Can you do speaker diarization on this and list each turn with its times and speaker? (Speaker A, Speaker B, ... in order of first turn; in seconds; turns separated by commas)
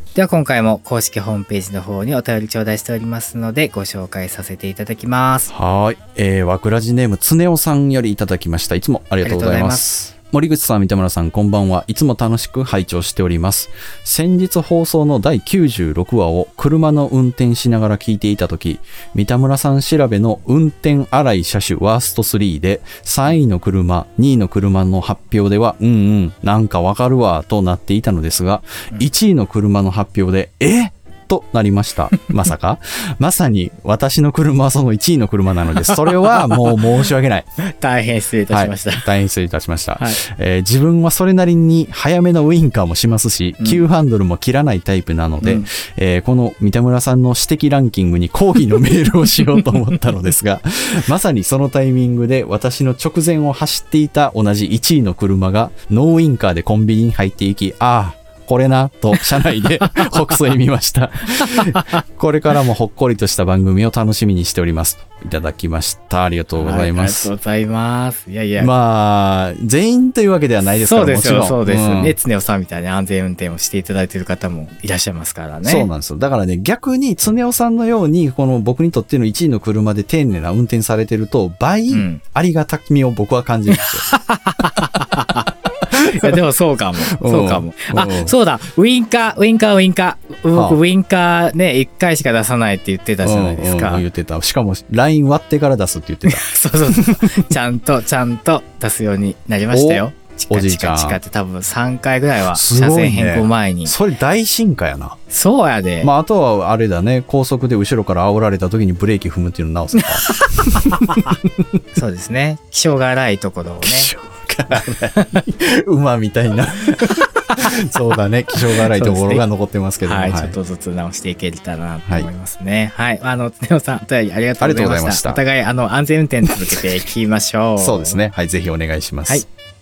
Speaker A: 0.1-5.5, Speaker B: 5.5-37.5, Speaker A: 9.2-9.9, Speaker A: 35.9-36.8, Speaker A: 37.6-39.0, Speaker B: 38.5-67.3, Speaker A: 45.4-45.7, Speaker A: 61.4-61.9, Speaker A: 66.6-68.7, Speaker B: 68.6-72.2, Speaker A: 70.8-75.9, Speaker B: 75.6-84.1, Speaker A: 81.9-82.2, Speaker A: 83.7-94.0, Speaker B: 85.9-86.4, Speaker B: 87.1-88.3, Speaker B: 90.5-90.8, Speaker B: 93.2-97.2, Speaker A: 96.3-104.0, Speaker B: 99.7-101.2, Speaker B: 102.5-105.2, Speaker A: 105.3-106.1, Speaker B: 106.0-111.2, Speaker A: 110.0-111.2, Speaker A: 112.0-114.1, Speaker B: 113.8-120.6, Speaker A: 115.2-115.4, Speaker A: 118.9-119.5, Speaker A: 120.0-128.2, Speaker B: 124.6-125.4, Speaker B: 127.8-129.4